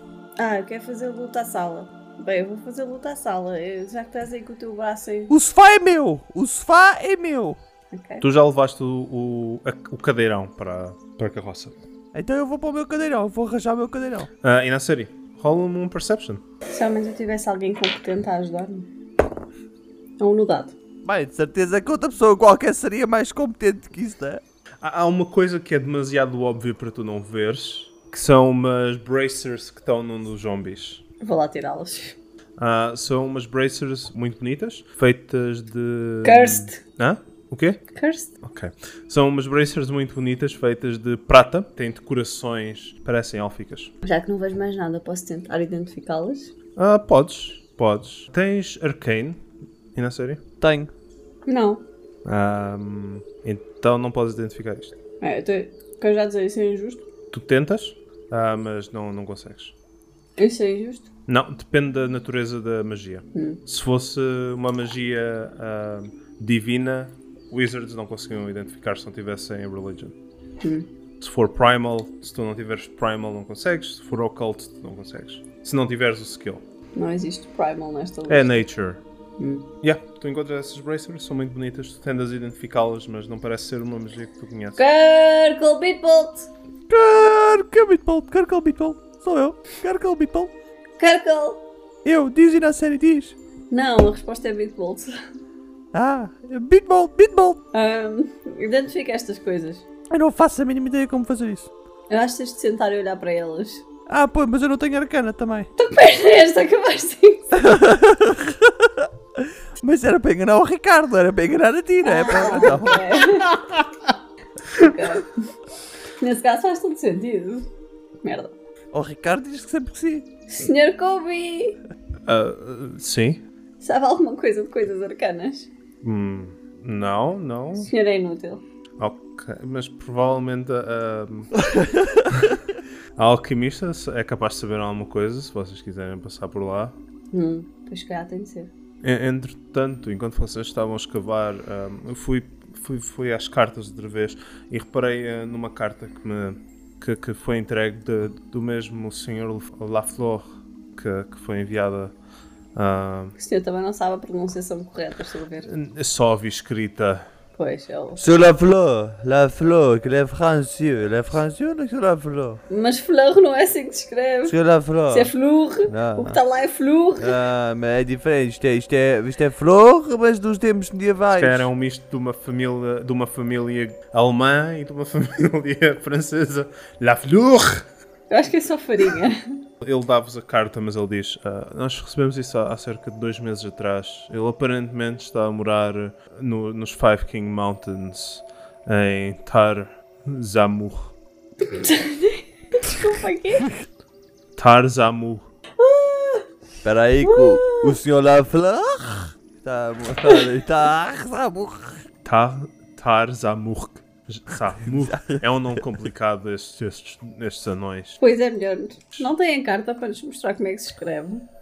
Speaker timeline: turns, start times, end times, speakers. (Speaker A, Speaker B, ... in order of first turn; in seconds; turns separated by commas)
Speaker A: 0.4-5.3, Speaker B: 5.3-7.6, Speaker A: 7.9-8.2, Speaker C: 8.2-11.8, Speaker B: 12.1-14.3, Speaker C: 14.4-16.4, Speaker A: 16.7-18.9, Speaker A: 20.2-20.8, Speaker B: 21.0-24.4, Speaker C: 24.8-31.0, Speaker A: 31.2-32.2, Speaker C: 32.6-37.8, Speaker A: 36.2-36.8, Speaker A: 37.9-38.3, Speaker C: 38.4-43.9, Speaker A: 44.0-46.5, Speaker C: 46.8-49.4, Speaker C: 49.9-50.4, Speaker B: 50.6-50.9, Speaker A: 51.5-51.8, Speaker C: 52.2-54.9, Speaker A: 55.2-57.0, Speaker C: 57.3-59.7, Speaker A: 60.4-61.0, Speaker C: 61.3-70.1, Speaker A: 63.3-63.6, Speaker A: 70.6-70.9, Speaker C: 71.2-76.6, Speaker A: 77.0-78.6, Speaker C: 78.3-79.0, Speaker A: 79.4-79.7, Speaker C: 79.8-84.8, Speaker A: 84.8-86.5, Speaker B: 86.9-90.5, Speaker A: 91.0-91.6, Speaker B: 92.0-93.3, Speaker A: 93.7-95.1, Speaker B: 95.9-97.6, Speaker A: 97.7-99.8, Speaker B: 100.1-101.7, Speaker A: 102.1-103.8, Speaker B: 104.1-105.7, Speaker A: 105.8-107.6, Speaker B: 107.5-113.2, Speaker A: 112.0-113.7, Speaker A: 114.7-115.4, Speaker A: 116.2-117.7, Speaker A: 118.2-118.5, Speaker B: 118.9-120.2, Speaker A: 120.5-121.8, Speaker C: 122.2-123.4, Speaker A: 123.8-125.7, Speaker C: 126.0-127.9, Speaker A: 127.8-128.6, Speaker C: 129.0-131.5, Speaker B: 131.5-132.6, Speaker C: 132.3-132.6, Speaker C: 133.2-136.9, Speaker A: 137.3-138.7, Speaker C: 139.0-152.1, Speaker C: 152.8-153.3, Speaker A: 153.4-155.7, Speaker C: 155.6-157.2, Speaker A: 157.5-158.2, Speaker B: 158.2-162.6, Speaker A: 162.7-164.6, Speaker B: 164.4-165.3, Speaker A: 165.1-167.3, Speaker B: 165.8-166.4, Speaker B: 167.2-171.7, Speaker C: 171.3-177.9, Speaker A: 178.3-179.4, Speaker C: 179.8-191.1, Speaker A: 191.6-193.7, Speaker C: 194.6-195.4, Speaker A: 195.8-196.5, Speaker B: 196.8-202.0, Speaker A: 197.2-198.0, Speaker C: 202.2-208.2, Speaker B: 204.9-205.4, Speaker A: 208.2-211.4